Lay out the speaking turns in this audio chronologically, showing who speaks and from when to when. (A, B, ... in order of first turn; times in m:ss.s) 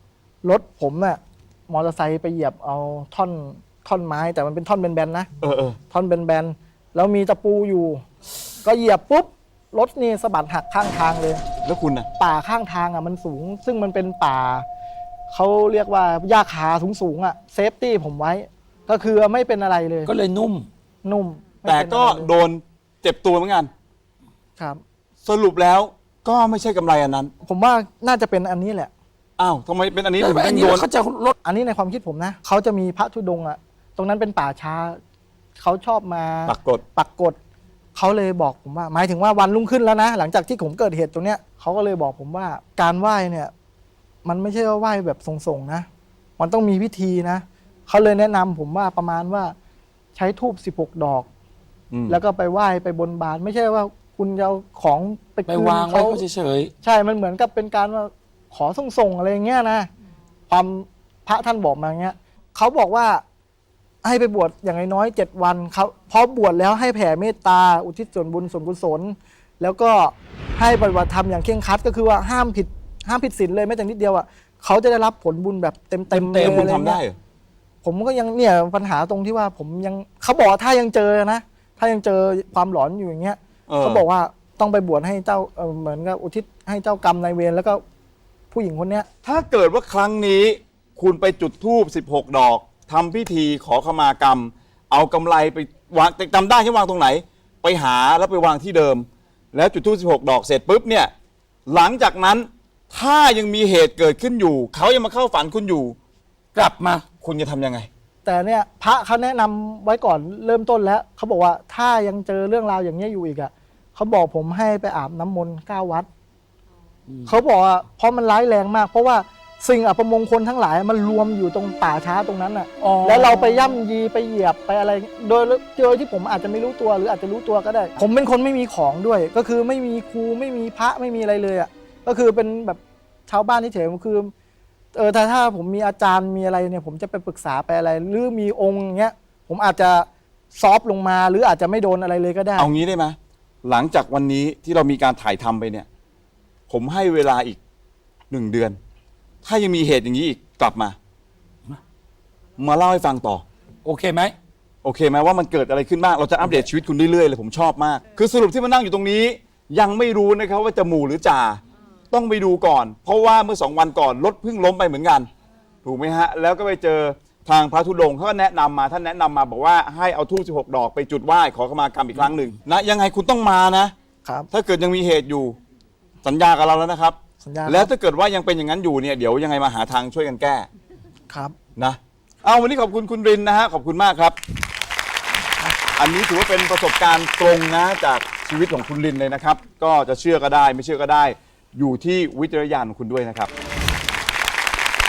0:00.4-0:05.3 A
0:05.4-0:05.8 B
0:05.9-0:08.0 A
0:08.6-0:11.4 A
0:11.6-0:12.1 B
0:12.2-0:14.6 A
0:15.3-0:20.1 A
0:20.0-0:20.7 C
0:21.0-0:22.4 A
0:21.6-0:23.7 B
0:25.2-0:27.3 B
0:27.4-0:28.9 A
0:29.4-0:30.9 B
0:30.2-0:31.3 C
0:31.4-0:35.0 A
0:35.6-0:37.4 A
0:36.5-0:36.8 B
0:37.9-0:43.5 A
0:44.2-0:45.9 A
0:46.4-0:49.5 A
0:50.1-0:51.3 A
0:51.9-0:52.2 B
0:52.1-0:56.2 A
0:55.5-0:56.7 C
0:56.8-0:59.9 A
1:00.5-1:03.2 A
1:04.0-1:17.0 A
1:16.1-1:16.7 C
1:16.4-1:17.2 B
1:17.8-1:27.8 A
1:23.7-1:24.0 B
1:28.5-1:29.1 A
1:29.2-1:41.1 B
1:41.7-1:46.0 B
1:46.5-1:47.0 C
1:47.2-1:47.9 B
1:48.2-1:56.1 A
1:57.1-1:57.3 C
1:57.2-2:14.3 A
2:02.8-2:03.8 C
2:14.9-2:22.7 A
2:22.6-2:25.9 B
2:26.7-2:27.6 B
2:28.3-2:28.8 B
2:29.4-2:31.0 B
2:32.6-2:33.4 B
2:33.8-2:34.3 C
2:34.8-2:45.3 B
2:36.4-2:36.7 C
2:45.8-2:53.9 B
2:54.5-2:55.6 B
2:56.2-3:00.7 B
2:57.4-2:57.9 A
3:01.3-3:01.5 A
3:01.8-3:04.4 B
3:05.9-3:13.5 B